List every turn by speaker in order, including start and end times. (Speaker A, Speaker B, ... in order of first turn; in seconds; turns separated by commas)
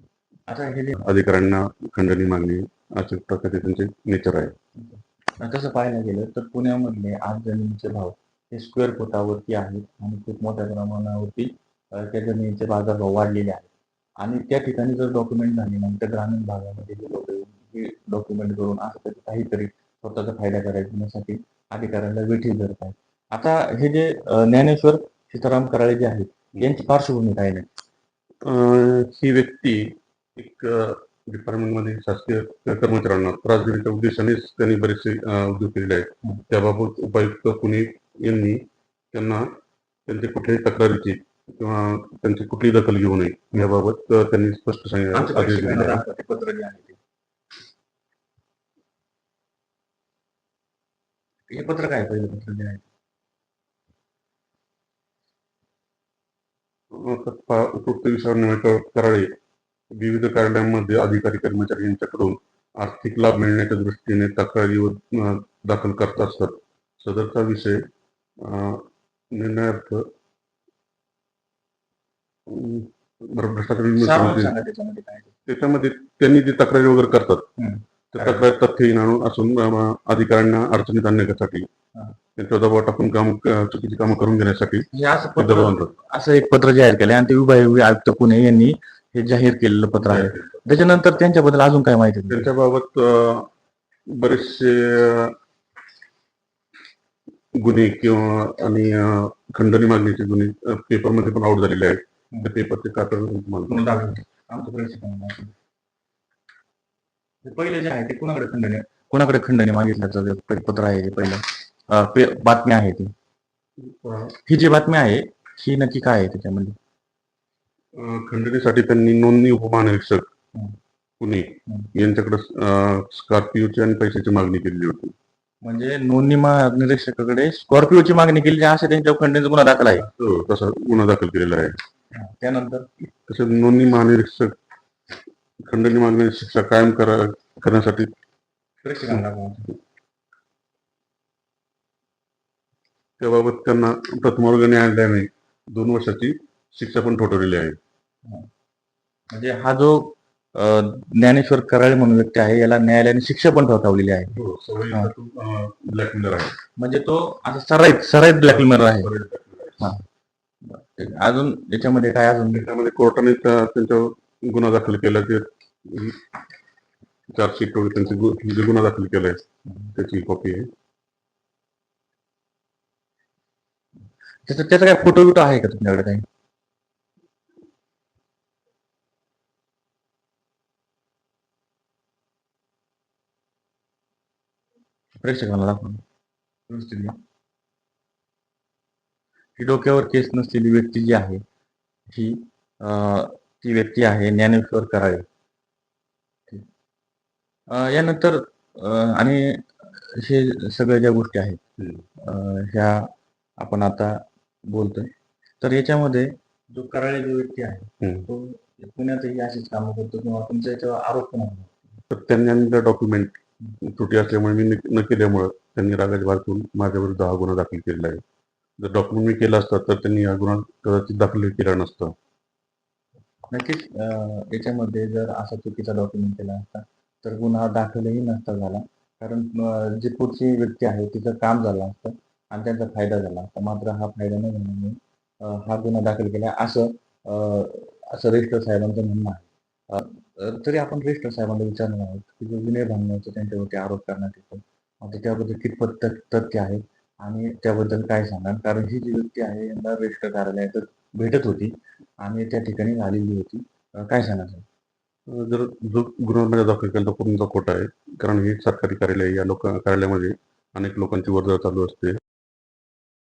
Speaker A: 0.5-1.0, Speaker B: 1.0-4.5, Speaker A: 4.8-27.7, Speaker B: 28.4-38.6, Speaker B: 39.1-39.4, Speaker B: 40.1-46.0, Speaker A: 45.1-47.0, Speaker A: 51.5-52.8, Speaker B: 56.9-59.3, Speaker B: 60.0-67.8, Speaker B: 68.4-68.8, Speaker B: 69.3-70.0, Speaker B: 72.5-74.5, Speaker A: 74.0-75.3, Speaker B: 75.5-77.5, Speaker A: 77.6-78.5, Speaker B: 78.1-81.7, Speaker B: 82.4-85.9, Speaker A: 84.9-92.5, Speaker B: 90.0-90.6, Speaker B: 92.3-93.5, Speaker B: 94.1-95.3, Speaker B: 97.6-104.1, Speaker A: 103.7-105.5, Speaker A: 107.4-113.1, Speaker B: 113.9-114.3, Speaker A: 114.5-116.8, Speaker B: 118.0-120.3, Speaker B: 121.2-125.2, Speaker A: 125.6-130.1, Speaker B: 130.0-131.8, Speaker A: 132.1-132.9, Speaker B: 133.3-134.6, Speaker B: 135.6-138.1, Speaker A: 138.8-139.7, Speaker B: 143.2-147.8, Speaker A: 149.3-154.3, Speaker B: 154.3-156.5, Speaker A: 156.8-159.1, Speaker B: 158.4-159.9, Speaker A: 160.7-162.7, Speaker B: 162.5-166.2, Speaker B: 167.3-169.4, Speaker B: 169.9-170.7, Speaker A: 174.5-176.2, Speaker A: 185.2-186.0, Speaker A: 186.7-187.2, Speaker A: 189.6-191.4, Speaker A: 192.1-195.3, Speaker A: 197.7-201.6, Speaker B: 201.8-202.0, Speaker A: 202.2-205.1, Speaker A: 205.6-212.0, Speaker B: 208.0-208.3, Speaker B: 212.1-218.2, Speaker B: 218.8-222.2, Speaker A: 223.5-254.7, Speaker B: 255.3-262.2